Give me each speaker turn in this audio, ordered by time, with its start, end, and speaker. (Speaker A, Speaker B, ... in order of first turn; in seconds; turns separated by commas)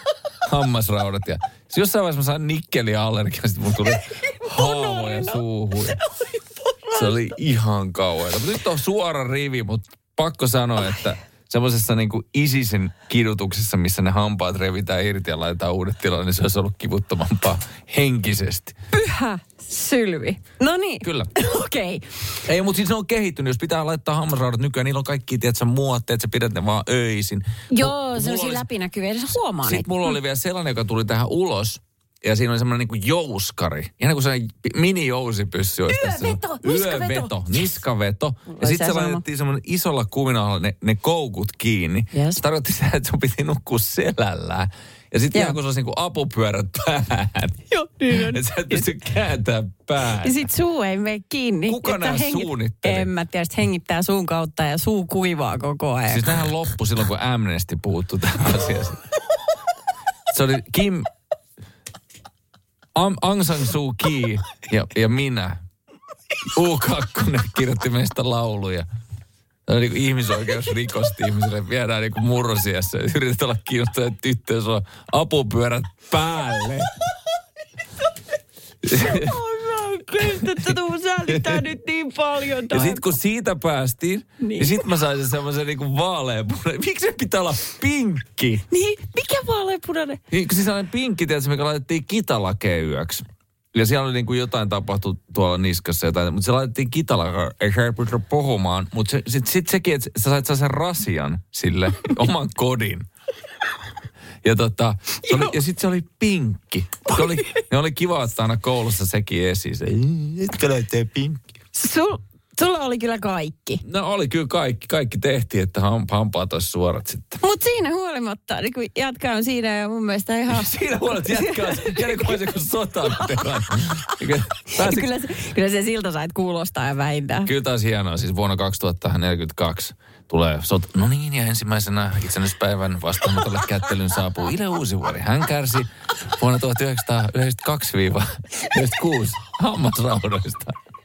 Speaker A: 0.4-6.0, Speaker B: 4.3-5.4, Speaker B: 6.2-7.1, Speaker A: 6.9-18.8, Speaker B: 18.9-22.1, Speaker A: 21.0-21.3, Speaker A: 22.5-28.7, Speaker B: 27.7-30.1, Speaker A: 29.6-50.5, Speaker B: 35.9-37.8, Speaker B: 38.5-39.2, Speaker B: 42.1-42.4, Speaker B: 47.7-48.9, Speaker B: 50.2-56.4, Speaker A: 51.7-53.1, Speaker A: 56.1-59.0, Speaker A: 60.3-61.1, Speaker A: 63.0-65.6, Speaker A: 66.5-68.8, Speaker A: 69.7-76.9, Speaker A: 78.8-79.5, Speaker B: 78.9-83.1, Speaker A: 80.1-80.7, Speaker A: 81.3-81.7, Speaker A: 82.7-88.7, Speaker B: 84.4-84.8, Speaker B: 88.7-90.2, Speaker A: 90.3-103.1, Speaker A: 104.4-111.4, Speaker B: 105.2-105.6, Speaker B: 107.1-107.6, Speaker B: 111.8-113.8, Speaker A: 113.8-117.4, Speaker B: 117.4-122.4, Speaker A: 120.5-125.1, Speaker B: 123.2-127.5, Speaker A: 127.5-140.8